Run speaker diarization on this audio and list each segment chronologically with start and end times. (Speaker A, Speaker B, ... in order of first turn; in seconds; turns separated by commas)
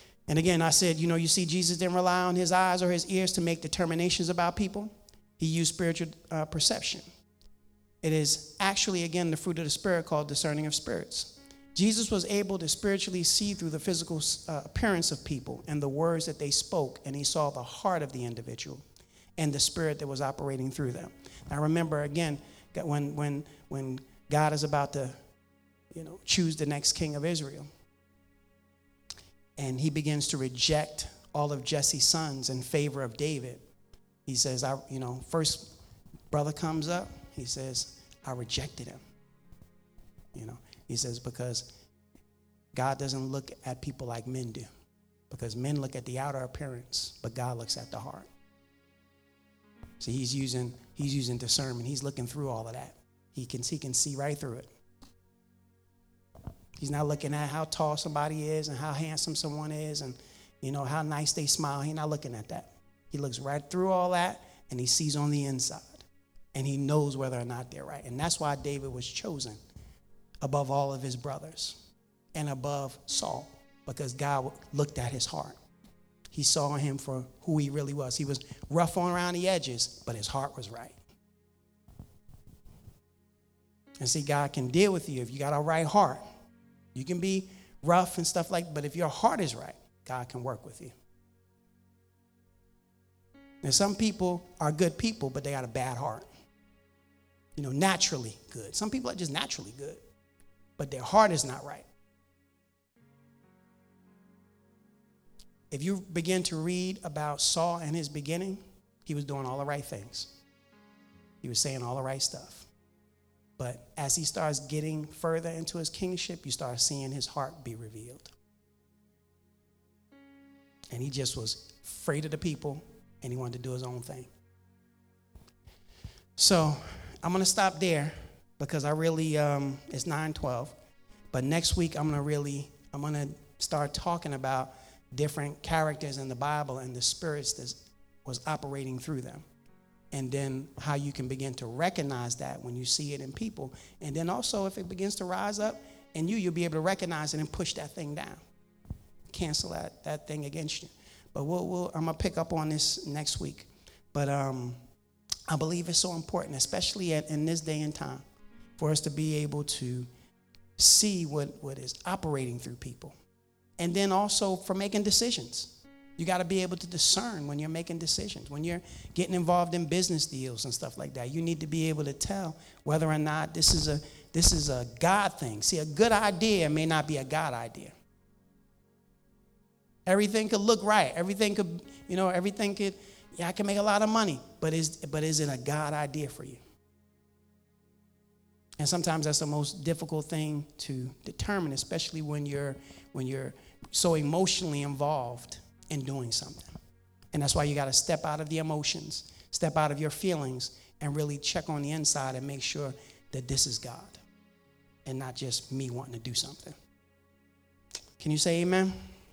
Speaker A: 0.3-7.0, Speaker A: 8.0-18.8, Speaker A: 19.4-25.2, Speaker A: 25.9-27.7, Speaker A: 29.6-33.6, Speaker A: 34.3-35.7, Speaker A: 36.3-39.0, Speaker A: 40.3-41.7, Speaker A: 42.7-44.7, Speaker A: 45.3-48.3, Speaker A: 50.0-54.7, Speaker A: 56.8-69.6, Speaker A: 70.4-71.8, Speaker A: 72.3-75.6, Speaker A: 76.3-81.0, Speaker A: 84.0-86.2, Speaker A: 86.9-91.0, Speaker A: 93.6-96.3, Speaker A: 97.6-100.0, Speaker A: 100.8-101.9, Speaker A: 105.7-110.3, Speaker A: 111.4-112.7, Speaker A: 113.6-118.3, Speaker A: 120.9-124.3, Speaker A: 126.4-130.8, Speaker A: 131.3-139.4, Speaker A: 140.1-148.4, Speaker A: 149.3-154.8, Speaker A: 155.5-158.2, Speaker A: 158.8-160.1, Speaker A: 160.8-163.2, Speaker A: 163.8-177.9, Speaker A: 180.1-186.6, Speaker A: 188.8-196.8, Speaker A: 197.3-204.2, Speaker A: 205.1-206.8, Speaker A: 208.2-209.0